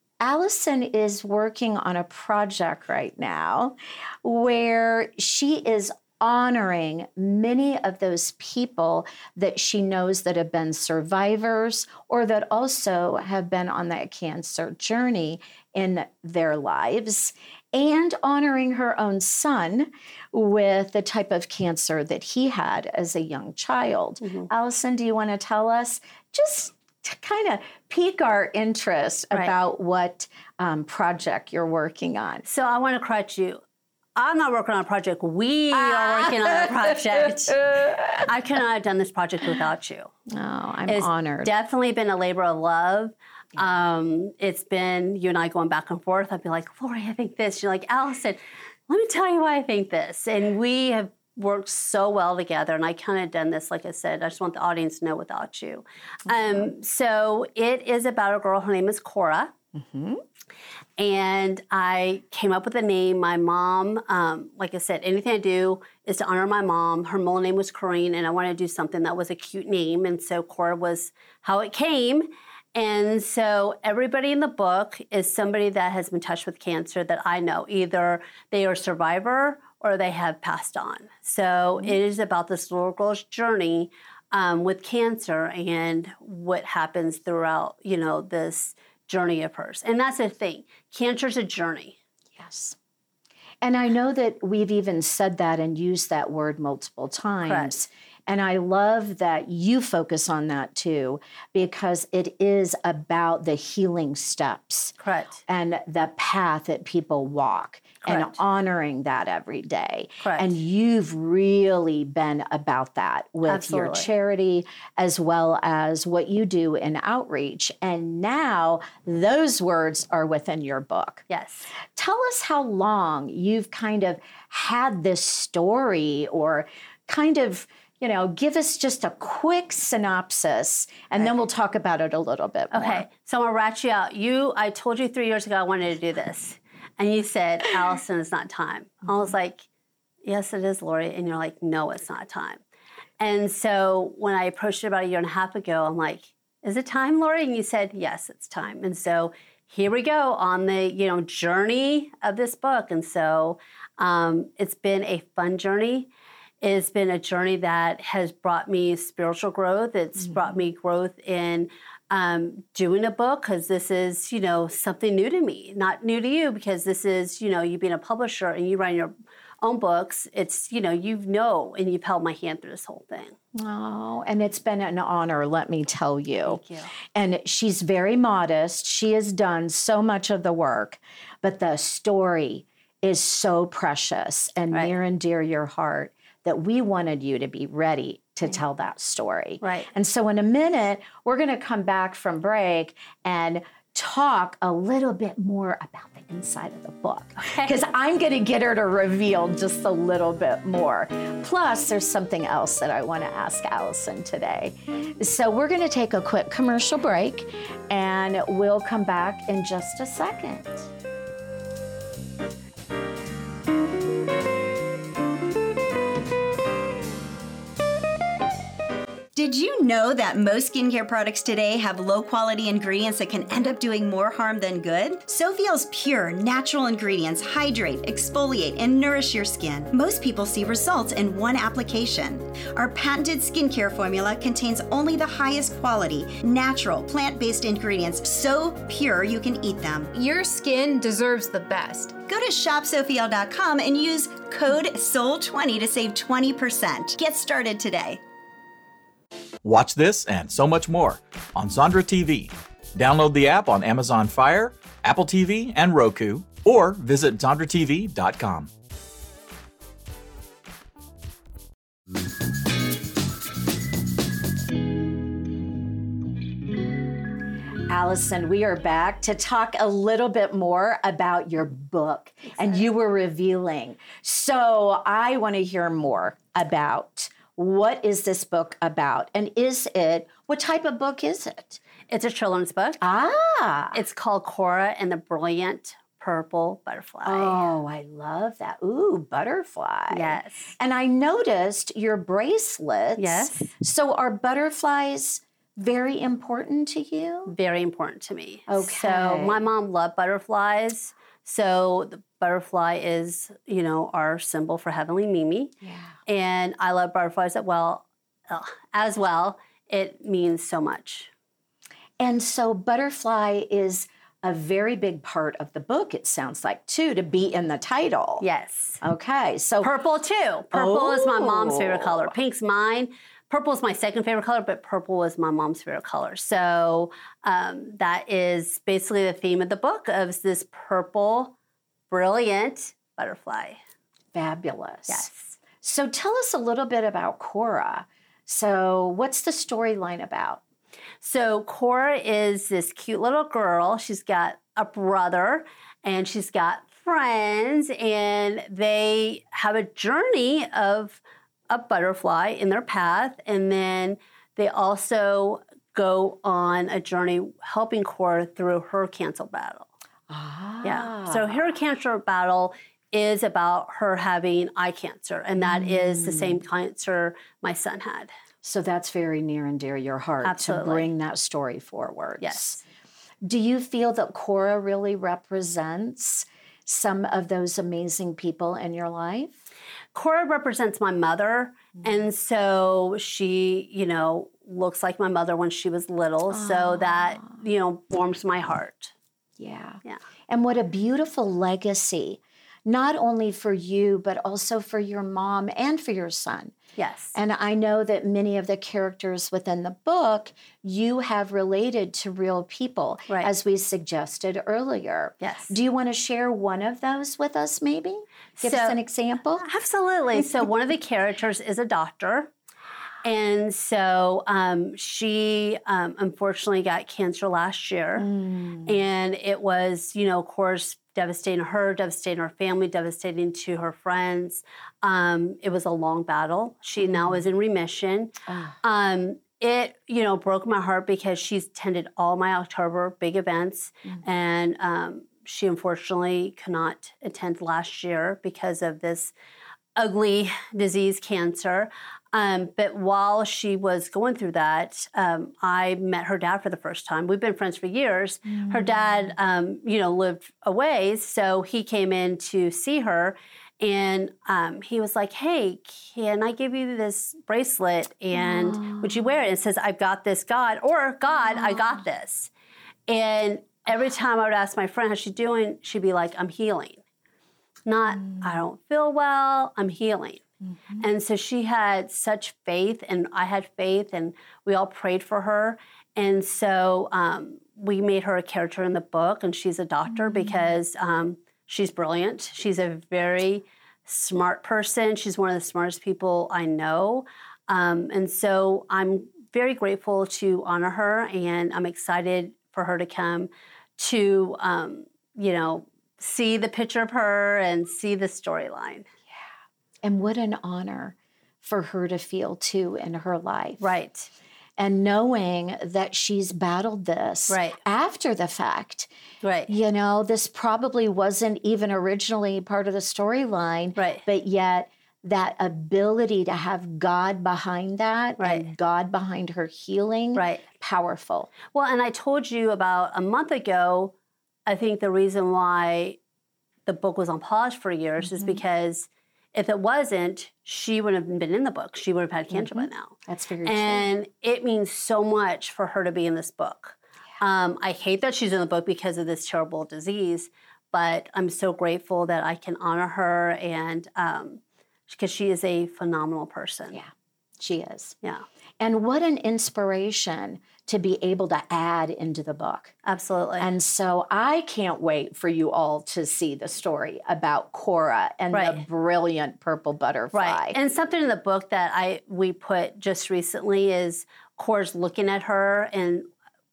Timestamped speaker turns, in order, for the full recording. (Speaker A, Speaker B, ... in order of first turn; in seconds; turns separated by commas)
Speaker A: 0.2-32.4, Speaker B: 24.2-24.5, Speaker B: 32.4-33.6, Speaker B: 34.1-40.1, Speaker A: 35.7-38.3, Speaker A: 40.3-41.5, Speaker B: 40.9-59.5, Speaker A: 56.4-56.7, Speaker A: 59.7-60.2, Speaker B: 61.0-92.0, Speaker A: 92.4-92.8, Speaker A: 93.6-104.9, Speaker B: 97.5-97.7, Speaker B: 105.0-105.4, Speaker A: 105.5-121.3, Speaker B: 108.0-108.4, Speaker B: 110.2-110.5, Speaker B: 113.5-114.1, Speaker B: 121.3-121.7, Speaker A: 121.9-133.1, Speaker B: 132.7-139.7, Speaker B: 140.2-142.6, Speaker B: 143.2-156.1, Speaker B: 156.6-173.3, Speaker A: 173.5-210.9, Speaker B: 176.4-176.9, Speaker B: 189.6-189.9, Speaker B: 197.4-197.8, Speaker C: 219.3-240.1, Speaker D: 240.1-242.2, Speaker C: 242.2-248.2, Speaker E: 249.6-258.7, Speaker A: 267.9-281.8, Speaker B: 272.5-272.8, Speaker B: 282.1-283.0, Speaker A: 283.0-284.0, Speaker B: 283.9-287.6, Speaker A: 287.2-297.5, Speaker B: 290.1-290.7, Speaker B: 293.2-293.7, Speaker B: 297.4-305.7, Speaker A: 298.7-299.6, Speaker A: 305.8-306.1, Speaker B: 306.2-311.3, Speaker A: 312.2-318.4, Speaker B: 318.4-319.0, Speaker A: 319.0-319.9, Speaker B: 319.8-331.5, Speaker A: 320.7-322.3, Speaker B: 332.1-333.8, Speaker A: 334.3-335.3, Speaker B: 335.1-335.6, Speaker A: 335.8-340.6, Speaker B: 341.2-359.9, Speaker A: 360.3-361.7, Speaker B: 360.8-368.3, Speaker A: 365.6-366.6, Speaker A: 368.6-372.8, Speaker B: 370.4-371.1, Speaker B: 372.4-372.8, Speaker A: 373.4-379.6, Speaker B: 380.1-389.1, Speaker A: 386.5-387.5, Speaker A: 389.6-396.7, Speaker B: 396.9-397.3, Speaker A: 397.3-409.7, Speaker B: 405.4-405.7, Speaker B: 408.6-409.0, Speaker B: 409.6-412.5, Speaker B: 413.2-418.3, Speaker A: 418.2-418.9, Speaker B: 418.8-439.3, Speaker A: 427.0-427.4, Speaker A: 428.5-428.8, Speaker B: 439.9-462.5, Speaker A: 448.6-449.0, Speaker A: 458.3-459.2, Speaker A: 461.5-461.9, Speaker B: 463.1-467.0, Speaker B: 467.9-470.4, Speaker B: 471.0-499.1, Speaker A: 480.3-480.5, Speaker A: 500.0-503.9, Speaker B: 503.8-504.3, Speaker A: 504.8-509.1, Speaker B: 507.5-507.8, Speaker B: 509.4-509.7, Speaker A: 509.7-521.5, Speaker B: 514.0-514.2, Speaker B: 518.4-518.7, Speaker B: 520.3-520.6, Speaker B: 521.7-524.1, Speaker B: 524.7-526.2, Speaker B: 526.9-547.0, Speaker A: 528.2-528.6, Speaker A: 532.5-534.0, Speaker A: 546.9-548.1, Speaker A: 548.8-552.9, Speaker B: 553.0-553.7, Speaker A: 553.6-560.8, Speaker B: 558.5-558.8, Speaker B: 560.3-566.2